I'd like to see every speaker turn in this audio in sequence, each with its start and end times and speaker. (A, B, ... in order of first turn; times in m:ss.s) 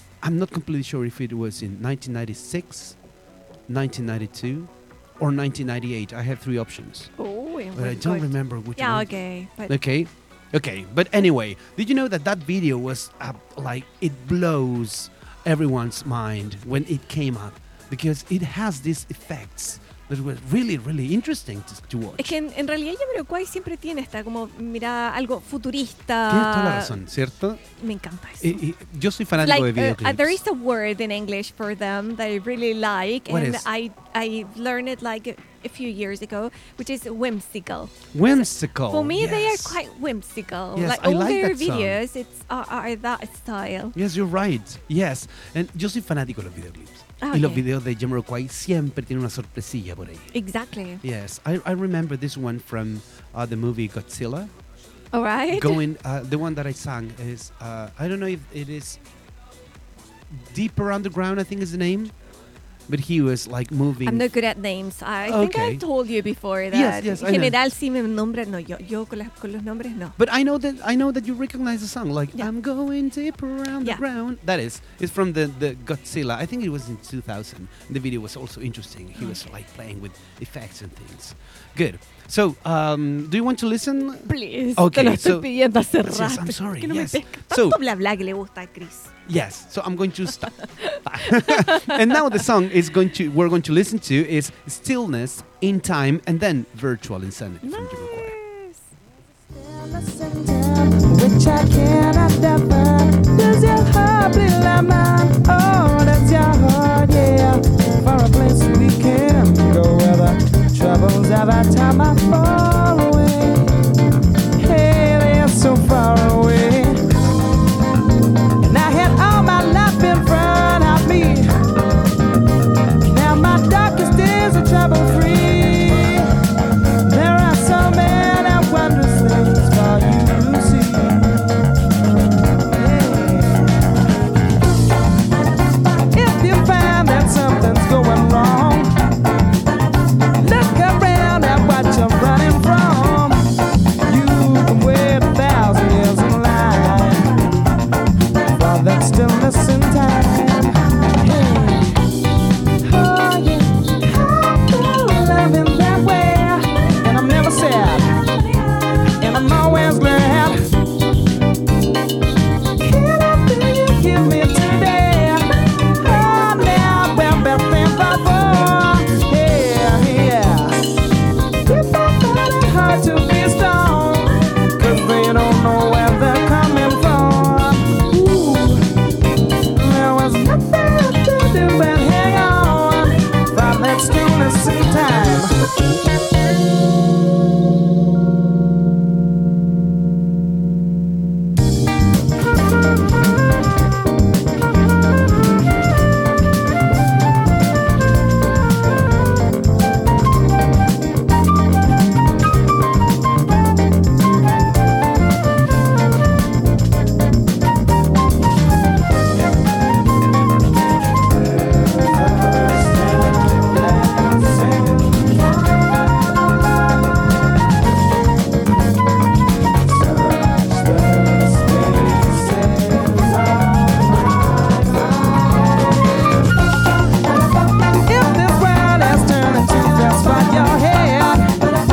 0:00.2-0:03.0 A
0:03.7-0:07.1 A
0:07.2-0:09.8 B
0:07.8-0:09.1 A
0:09.7-0:22.4 A
0:22.2-0:27.0 B
0:26.3-0:27.6 A
0:27.8-0:28.6 B
0:28.4-0:30.4 A
0:29.4-0:44.0 B
0:33.3-0:33.7 A
0:38.1-0:39.8 A
0:40.8-0:42.0 A
0:44.0-0:50.3 A
0:47.2-0:47.6 B
0:50.3-0:51.0 B
0:51.0-0:54.5 A
0:55.1-0:55.8 B
0:55.5-0:59.0 A
1:00.3-1:02.1 A
1:02.9-1:04.3 A
1:04.0-1:10.2 B
1:05.2-1:05.8 A
1:06.7-1:07.6 A
1:10.2-1:27.8 A
1:24.3-1:29.1 B
1:29.2-1:38.4 A
1:30.6-1:32.4 B
1:37.6-1:38.8 B
1:39.5-1:53.8 C
1:54.6-1:57.0 C
1:58.6-2:01.5 C
2:03.0-2:06.3 C
2:07.0-2:11.4 C
2:12.7-2:13.9 C
2:16.1-2:18.9 C
2:20.4-2:23.5 C
2:24.1-2:27.4 C
2:28.6-2:32.0 C
2:32.8-2:38.2 C
2:39.2-2:40.7 C
2:42.8-2:50.8 C
2:51.6-2:58.9 C
2:59.7-3:05.6 C
3:31.7-3:35.4 C
3:40.1-3:45.4 C
3:48.0-3:51.5 C